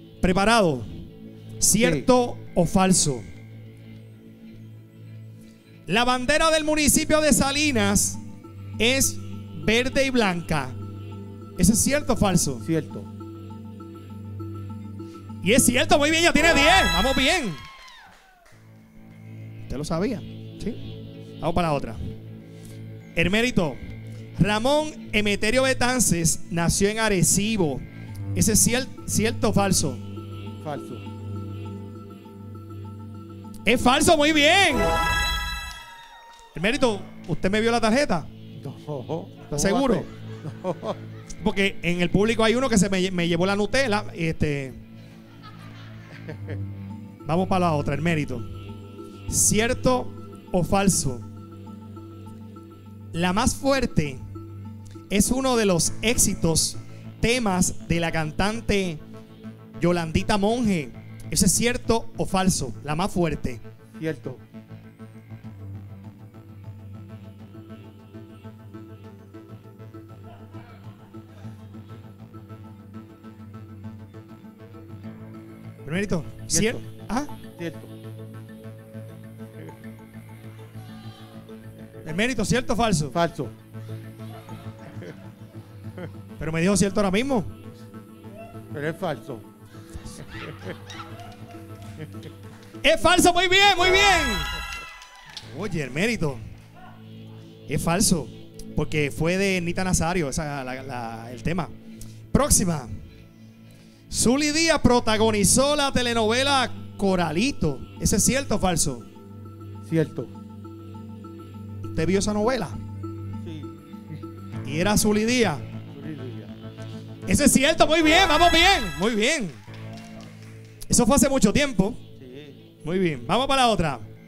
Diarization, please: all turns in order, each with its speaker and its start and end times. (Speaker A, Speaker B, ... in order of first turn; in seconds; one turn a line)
Speaker A: 0.2-0.9
Speaker A: 1.6-3.3
Speaker B: 1.8-2.1
Speaker A: 5.9-8.2
Speaker A: 8.8-10.8
Speaker A: 11.6-12.6
Speaker B: 12.6-13.1
Speaker A: 15.4-17.6
Speaker A: 19.7-20.8
Speaker A: 21.4-22.0
Speaker A: 23.1-23.8
Speaker A: 24.4-30.0
Speaker B: 30.6-31.1
Speaker A: 33.7-35.0
Speaker A: 36.5-38.3
Speaker B: 38.6-41.0
Speaker A: 39.5-40.1
Speaker A: 41.4-44.8
Speaker A: 47.2-48.5
Speaker A: 49.3-51.2
Speaker A: 53.1-54.2
Speaker A: 55.1-59.0
Speaker A: 59.8-63.6
Speaker B: 64.0-64.4
Speaker A: 75.8-77.3
Speaker B: 76.5-76.8
Speaker B: 77.6-77.9
Speaker A: 82.0-83.2
Speaker B: 83.1-83.5
Speaker A: 86.4-87.5
Speaker B: 88.7-89.5
Speaker B: 90.3-90.7
Speaker A: 92.8-94.5
Speaker A: 95.5-96.4
Speaker A: 97.7-101.7
Speaker A: 102.3-102.9
Speaker A: 104.1-109.0
Speaker B: 109.8-110.3
Speaker A: 111.9-112.8
Speaker B: 113.4-113.7
Speaker A: 114.7-115.7
Speaker B: 115.9-116.5
Speaker A: 117.3-119.6
Speaker A: 120.9-122.0
Speaker B: 122.2-122.6
Speaker A: 122.8-124.0